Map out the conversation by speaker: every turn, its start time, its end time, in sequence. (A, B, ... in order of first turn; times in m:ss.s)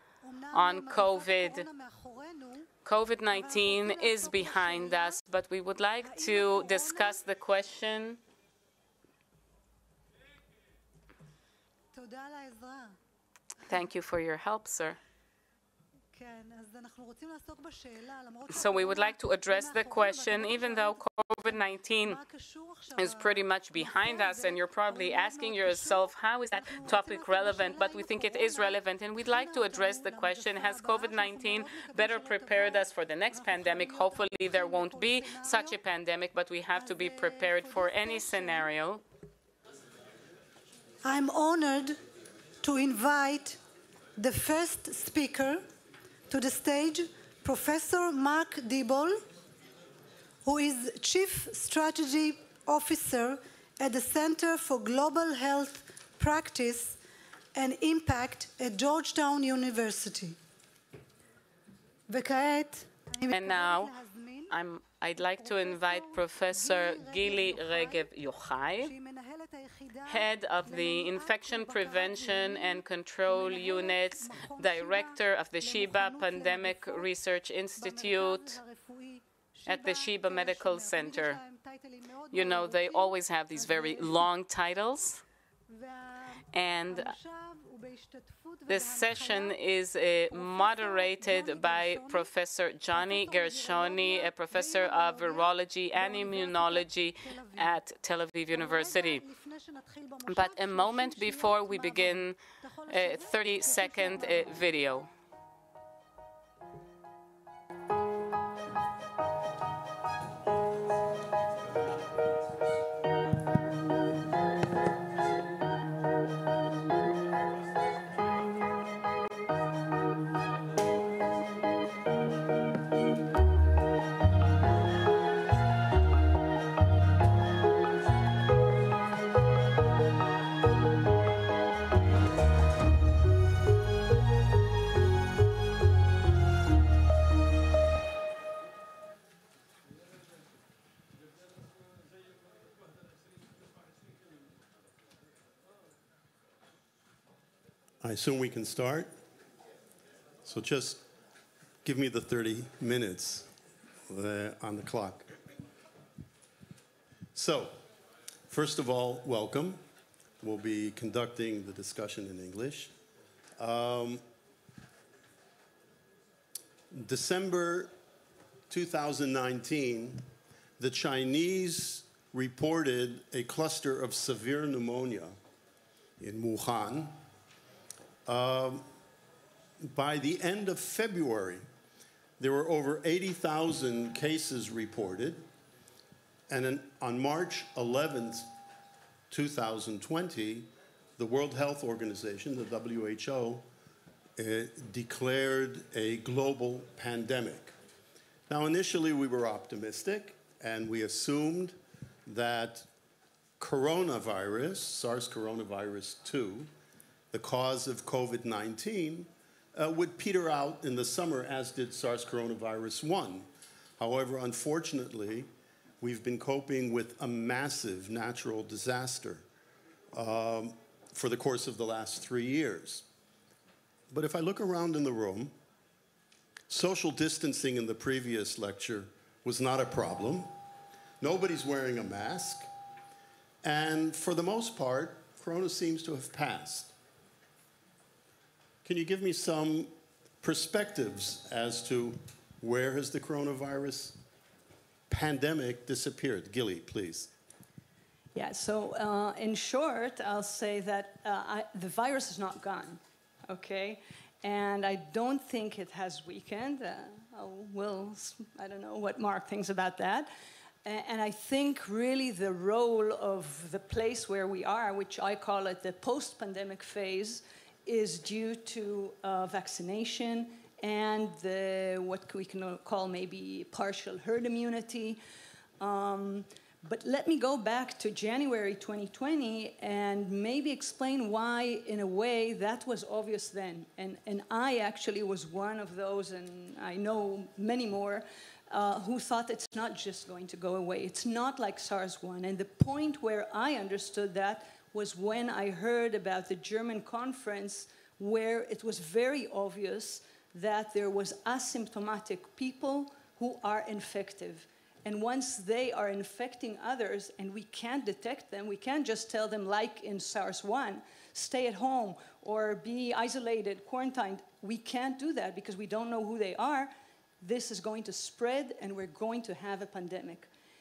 0:00.2-0:02.7 A
0:00.5-0:01.7 B
0:02.8-0:08.2 B
0:03.3-0:05.2 A
0:06.0-0:07.2 A
0:11.9-0:13.0 A
0:13.7-0:15.0 B
0:16.1-0:35.8 A
0:18.5-0:22.2 B
0:23.0-0:39.0 B
0:36.7-0:38.7 A
0:41.0-0:42.0 A
0:42.6-0:43.6 A
0:44.2-0:45.6 A
0:46.3-0:49.2 A
0:50.4-0:57.0 A
0:57.6-1:00.4 A
1:02.1-1:04.5 A
1:03.3-1:03.9 B
1:04.5-1:08.9 B
1:05.2-1:08.0 A
1:08.8-1:17.1 A
1:10.1-1:18.6 B
1:17.8-1:24.3 A
1:19.7-1:21.4 B
1:22.3-1:25.2 B
1:25.7-1:29.6 A
1:26.5-1:27.2 B
1:28.7-1:39.2 B
1:30.3-1:32.3 A
1:32.9-1:37.8 A
1:38.5-1:44.7 A
1:40.3-1:45.1 B
2:28.0-2:29.1 C
2:30.4-2:31.1 C
2:31.8-2:33.5 C
2:34.1-2:35.3 C
2:37.3-2:37.8 C
2:38.5-2:39.8 C
2:40.4-2:42.9 C
2:43.6-2:44.2 C
2:46.9-2:47.9 C
2:48.7-2:50.3 C
2:50.8-2:55.4 C
2:56.2-2:57.2 C
2:58.3-2:58.9 C
2:59.8-3:01.6 C
3:02.4-3:05.4 C
3:06.5-3:08.5 C
3:09.3-3:13.7 C
3:14.4-3:17.7 C
3:18.5-3:22.9 C
3:23.6-3:26.7 C
3:27.3-3:33.5 C
3:34.0-3:35.5 C
3:36.0-3:39.4 C
3:40.1-3:43.1 C
3:44.1-3:45.5 C
3:46.7-3:50.5 C
3:51.2-3:52.7 C
3:53.6-3:56.9 C
3:58.8-4:04.2 C
4:05.1-4:07.3 C
4:08.4-4:20.3 D
4:20.8-4:35.2 D
4:35.8-5:20.5 D